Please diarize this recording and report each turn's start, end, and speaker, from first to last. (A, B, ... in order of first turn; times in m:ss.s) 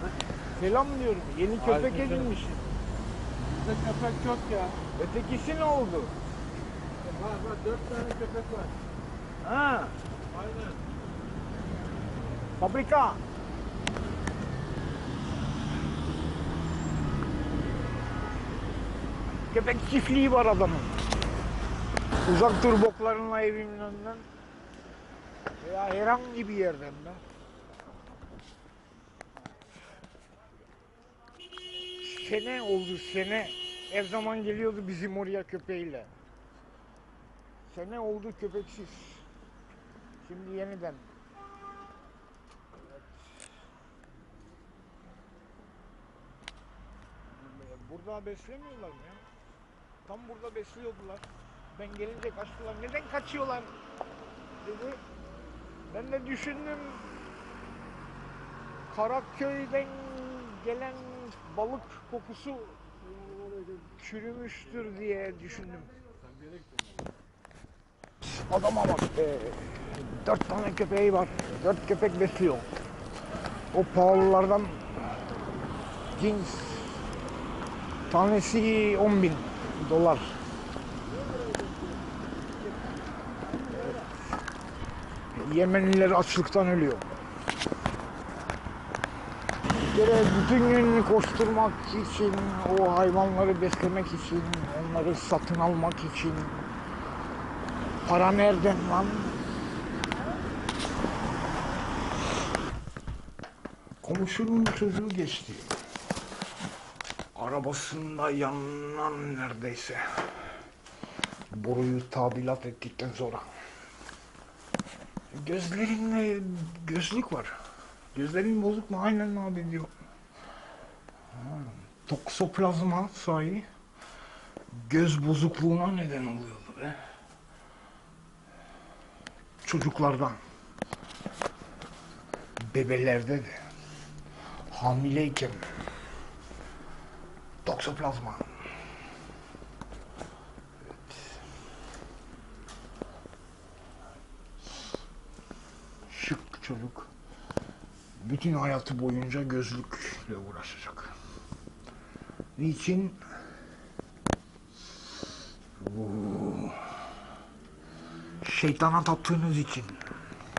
0:00.5-0:02.6 A
0:01.7-0:02.3 B
0:03.5-0:04.8 B
0:04.9-0:06.1 A
0:07.1-0:08.7 B
0:09.4-0:10.0 A
0:10.5-0:10.7 B
0:12.6-0:13.2 A
0:19.5-0:21.0 A
0:22.2-0:24.3 A
0:25.6-0:27.2 A
0:32.0-0:36.1 A
0:37.7-0:39.3 A
0:40.2-0:41.1 A
0:47.3-0:49.2 A
0:50.0-0:53.7 A
0:54.6-0:55.0 A
0:55.9-0:57.2 A
0:58.9-1:02.8 A
1:03.9-1:05.9 A
1:08.2-1:12.7 A
1:13.7-1:15.1 A
1:16.1-1:17.0 A
1:18.1-1:20.4 A
1:25.3-1:27.1 A
1:29.8-1:36.7 A
1:38.0-1:39.4 A
1:44.0-1:45.7 A
1:47.3-1:50.5 A
1:51.5-1:53.5 A
1:55.3-1:57.6 A
1:58.1-1:59.9 A
2:01.3-2:03.7 A
2:04.7-2:07.0 A
2:09.6-2:10.4 A
2:12.6-2:13.6 A
2:14.7-2:15.7 A
2:17.6-2:18.5 A
2:26.1-2:27.1 A
2:28.2-2:31.2 A
2:32.6-2:33.2 A
2:35.8-2:37.0 A
2:38.4-2:40.1 A